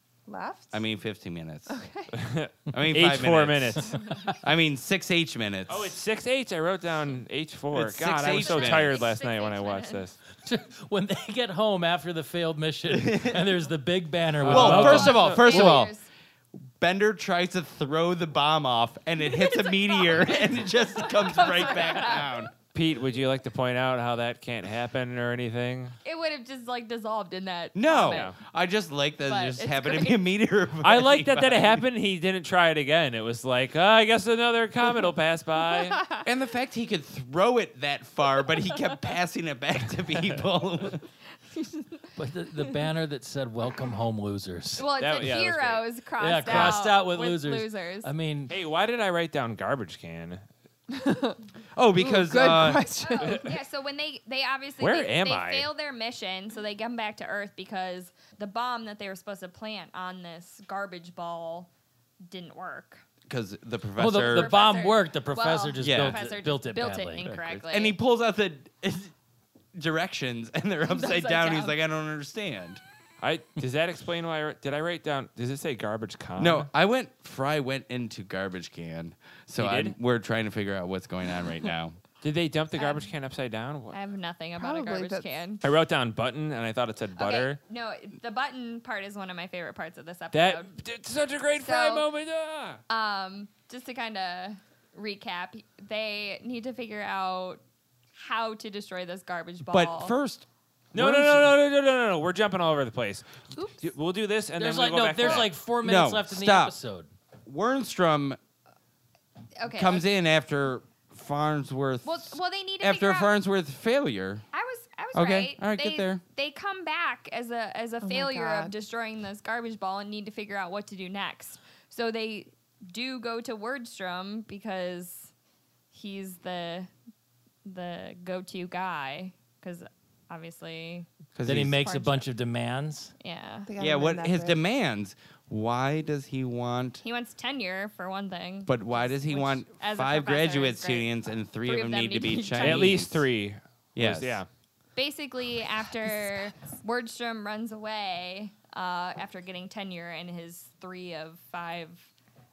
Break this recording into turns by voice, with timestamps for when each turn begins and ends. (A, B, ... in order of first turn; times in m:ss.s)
0:00.3-0:00.8 A
0:00.7-0:01.8 B
0:01.7-0:02.1 A
0:02.1-0:04.0 C
0:02.7-0:06.0 B
0:05.7-0:10.2 C
0:07.7-0:09.0 B
0:08.3-0:10.0 D
0:10.4-0:15.3 E
0:12.9-0:13.5 B
0:14.4-0:15.8 C
0:14.5-0:15.9 B
0:14.7-0:16.1 D
0:16.8-0:22.5 B
0:19.4-0:20.2 D
0:21.0-0:22.4 D
0:22.7-0:26.0 C
0:26.0-0:28.4 D
0:27.8-0:31.8 B
0:28.1-0:28.4 C
0:29.3-0:30.2 D
0:30.8-0:36.0 C
0:36.2-0:41.0 B
0:41.5-0:42.0 D
0:42.2-0:44.9 E
0:44.8-0:48.1 D
0:45.0-0:45.8 C
0:46.2-0:48.6 E
0:46.5-0:46.8 C
0:48.5-0:50.4 C
0:50.9-0:51.4 A
0:51.8-0:52.9 B
0:52.0-0:53.6 A
0:53.0-1:01.7 D
0:54.8-0:55.7 C
1:02.2-1:03.0 D
1:03.3-1:04.5 B
1:04.0-1:07.4 E
1:04.2-1:08.0 D
1:05.8-1:06.2 B
1:07.5-1:09.1 B
1:09.8-1:12.8 B
1:10.9-1:11.8 D
1:13.2-1:16.7 C
1:16.4-1:22.0 B
1:19.6-1:20.0 C
1:22.2-1:24.0 C
1:22.8-1:23.1 D
1:23.9-1:25.6 D
1:24.6-1:25.4 A
1:25.6-1:27.6 C
1:27.2-1:30.8 D
1:30.3-1:32.8 C
1:31.6-1:32.1 D
1:32.9-1:37.6 D
1:38.1-1:40.2 D
1:39.7-1:41.6 B
1:40.9-1:45.5 C
1:43.6-1:43.9 D
1:44.6-1:47.1 E
1:45.2-1:45.5 D
1:45.8-1:46.8 B
1:47.4-1:48.4 B
1:49.6-1:50.0 D
1:49.7-1:54.5 B
1:52.0-1:53.3 D
1:54.5-2:05.3 D
1:55.1-1:56.2 B
1:58.0-1:58.8 A
2:05.9-2:06.9 D
2:07.6-2:11.1 D
2:11.4-2:11.8 B
2:11.4-2:13.1 E
2:11.7-2:12.3 D
2:13.2-2:13.7 D
2:13.7-2:14.6 A
2:13.8-2:17.0 B
2:17.0-2:21.1 D
2:18.7-2:23.3 B
2:21.6-2:23.1 D
2:22.6-2:24.5 C
2:24.0-2:24.4 B
2:25.0-2:32.1 D